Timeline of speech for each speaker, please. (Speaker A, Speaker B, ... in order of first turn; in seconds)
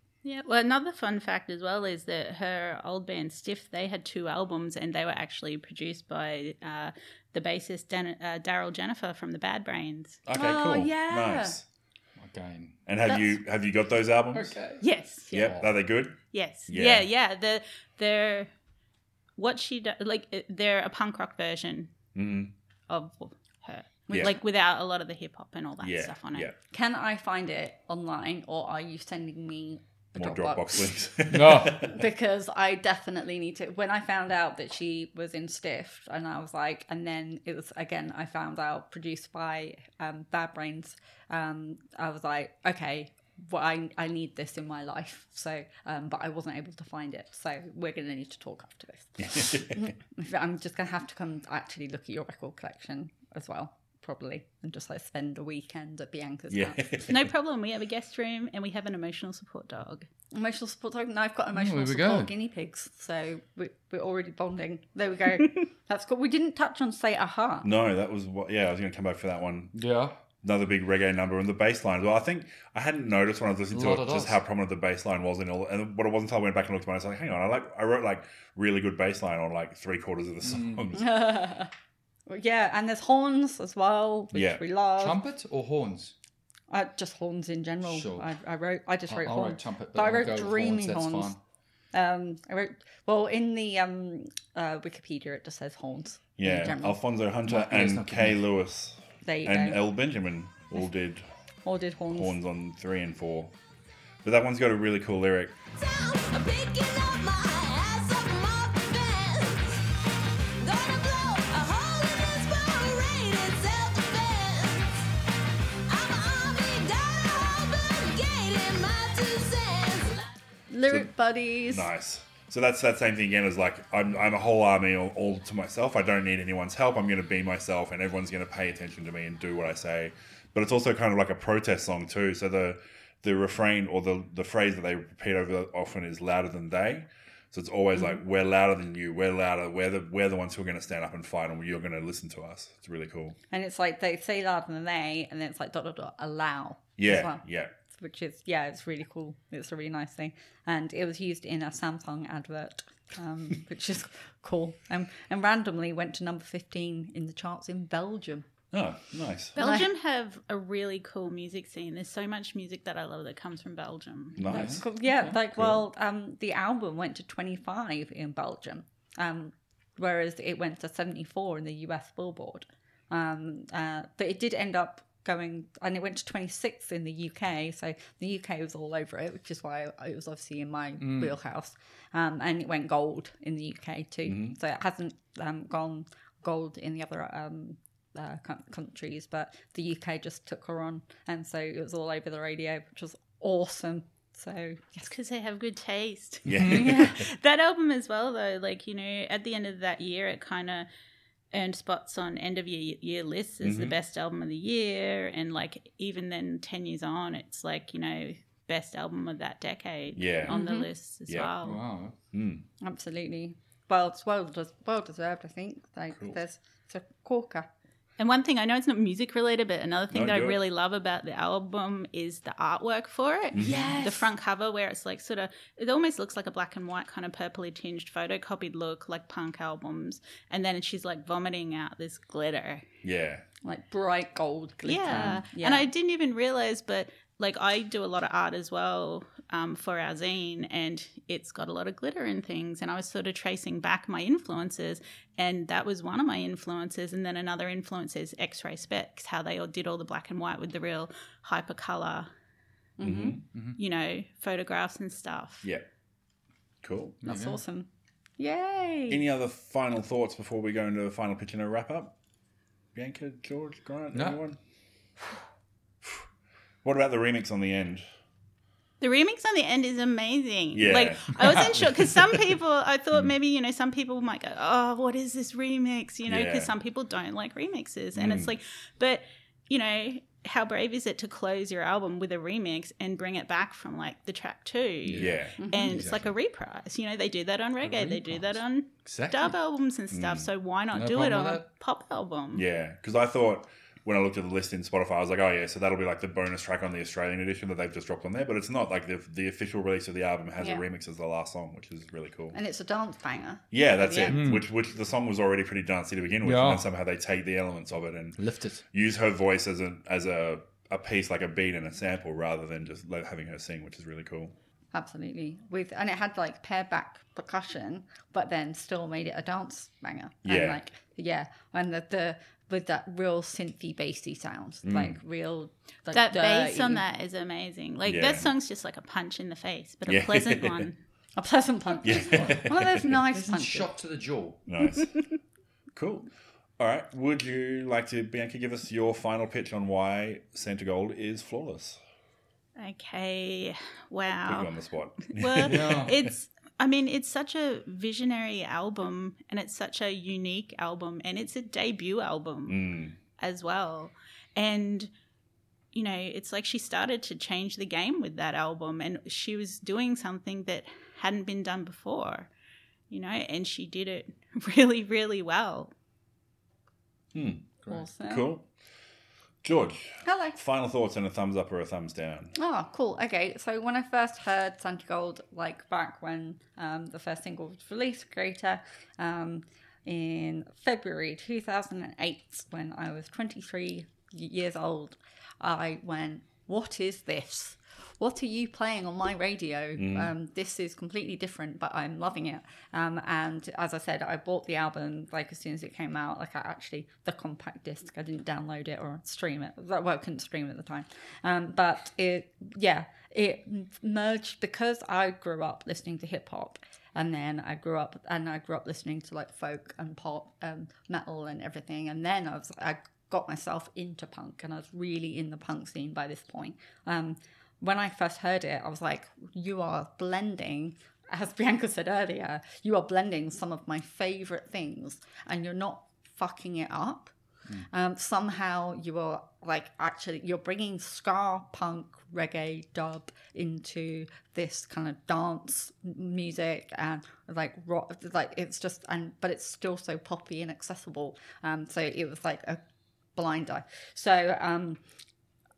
Speaker A: 0.2-10.2, 14.8-15.7, 16.2-18.5, 19.4-21.9, 22.9-26.5, 57.1-60.1, 159.6-164.4, 195.0-200.9, 201.5-211.8, 218.2-232.8, 234.8-252.3, 253.8-255.7, 269.0-292.6, 326.1-331.0, 342.8-344.7, 345.3-352.8, 353.4-355.1, 355.9-362.5, 363.1-365.9
Speaker B: 10.3-11.6, 12.8-14.5, 15.3-17.1, 22.1-22.5, 24.1-24.3, 25.8-26.5, 30.1-32.0, 49.2-49.9, 56.5-57.1, 67.6-69.8, 70.4-81.3, 84.3-84.6, 96.4-101.2, 102.1-103.5, 104.2-105.6, 121.7-143.4, 147.0-147.7, 158.7-159.6, 164.3-164.9, 165.5-165.8, 184.2-184.6, 196.4-197.2, 203.6-203.9, 210.1-210.5, 212.3-212.7, 216.1-216.4, 220.1-220.6, 223.5-223.9, 233.0-233.4, 253.0-253.4, 256.8-257.2, 259.1-262.1, 262.9-264.6, 266.8-268.0, 270.7-271.9, 276.3-276.7, 278.1-278.5, 285.1-285.6, 290.1-290.5, 292.5-302.6, 303.7-314.5, 320.4-320.8, 324.8-325.2, 328.1-328.5, 330.1-330.8, 332.0-333.1, 334.7-335.1, 335.9-342.0, 344.4-346.3, 352.7-353.2, 367.3-368.6, 369.6-372.5, 390.0-390.3
Speaker C: 10.3-11.6, 26.7-30.9, 31.6-57.0, 60.3-67.7, 80.9-81.7, 82.3-85.2, 86.7-91.3, 91.9-97.0, 99.2-99.8, 101.6-102.4, 120.7-121.9, 143.5-158.5, 159.6-159.9, 164.4-195.1, 196.7-197.2, 210.5-210.9, 212.8-217.7, 223.6-224.3, 233.6-235.9, 253.0-253.4, 257.2-259.2, 285.6-286.0, 302.5-304.4, 314.9-327.0, 331.4-333.9, 367.9-368.5, 370.2-370.6, 372.5-427.3, 427.9-442.8, 443.3-445.0
Speaker D: 12.2-12.8, 14.3-14.8, 15.4-15.7, 31.3-31.8, 61.5-62.3, 69.7-70.1, 73.7-74.4, 80.4-81.0, 85.0-86.1, 87.8-88.3, 89.1-91.4, 97.4-98.4, 164.5-165.4, 181.0-181.3, 211.6-212.1, 253.5-253.8, 257.2-257.6, 264.1-264.4, 285.1-286.3, 287.8-289.6, 290.9-291.6, 304.3-304.6, 306.4-306.9, 308.4-308.8, 332.3-334.6, 345.6-346.1
Speaker E: 105.8-109.8, 110.6-114.9, 115.9-120.3